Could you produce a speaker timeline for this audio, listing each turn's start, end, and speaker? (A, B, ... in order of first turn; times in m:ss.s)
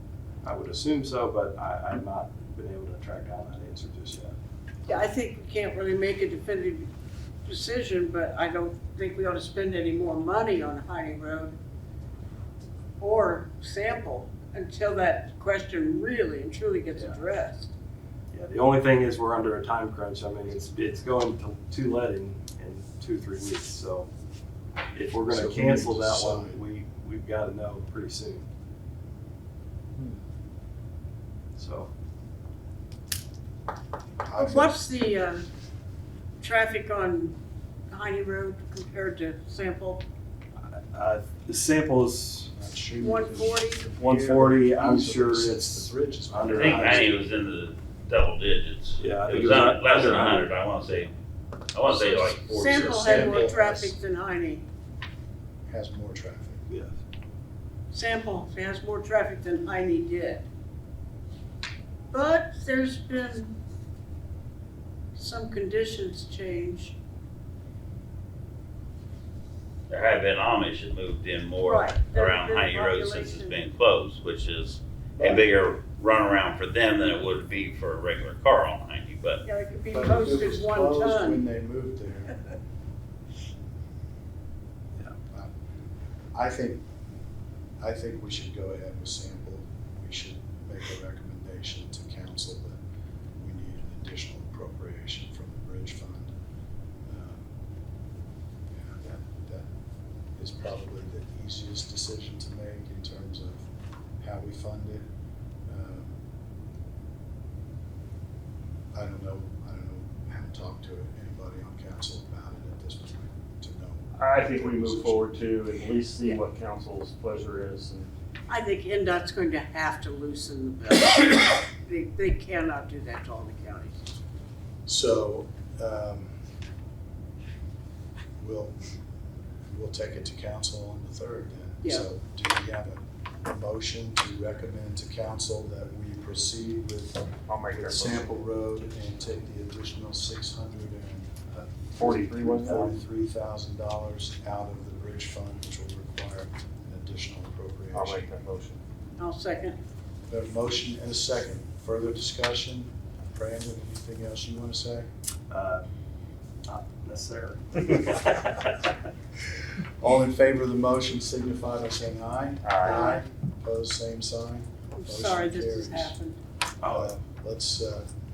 0:00.4-0:04.4 A
0:04.9-0:06.9 B
0:07.4-0:11.6 B
0:13.0-0:17.7 B
0:16.9-0:17.2 A
0:18.3-0:24.1 A
0:24.9-0:28.4 A
0:25.3-0:26.6 C
0:31.6-0:31.9 A
0:34.2-0:34.8 C
0:34.4-0:35.4 B
0:36.4-0:37.4 B
0:37.9-0:40.0 B
0:40.6-0:42.5 A
0:42.5-0:47.2 C
0:43.0-0:43.8 B
0:44.0-0:47.2 A
0:46.5-0:51.1 D
0:49.0-0:50.5 A
0:51.7-0:53.4 D
0:52.0-0:54.6 B
0:52.5-0:53.9 C
0:55.7-0:56.6 C
0:56.7-0:56.9 A
0:57.9-1:00.4 B
1:02.1-1:03.6 B
1:05.1-1:07.0 B
1:09.9-1:19.4 D
1:11.6-1:13.6 B
1:19.4-1:21.4 B
1:19.9-1:22.4 C
1:26.3-1:26.8 C
1:27.8-1:32.8 C
1:33.4-1:36.4 C
1:37.0-1:37.5 C
1:38.7-1:39.7 C
1:40.4-1:43.6 C
1:44.2-1:45.1 C
1:45.7-1:46.2 C
1:48.9-1:55.3 C
1:54.2-1:58.1 E
1:58.5-2:04.0 B
2:04.8-2:06.3 C
2:08.4-2:08.8 C
2:09.7-2:28.2 C
2:17.5-2:18.3 E
2:21.9-2:22.9 E
2:27.9-2:28.8 E
2:29.2-2:29.8 B
2:30.3-2:35.1 C
2:35.5-2:35.8 A
2:36.6-2:38.8 A
2:40.0-2:46.2 C
2:42.6-2:43.1 E
2:42.8-2:43.2 B
2:45.0-2:46.4 B
2:46.8-2:47.1 A
2:46.8-2:48.1 C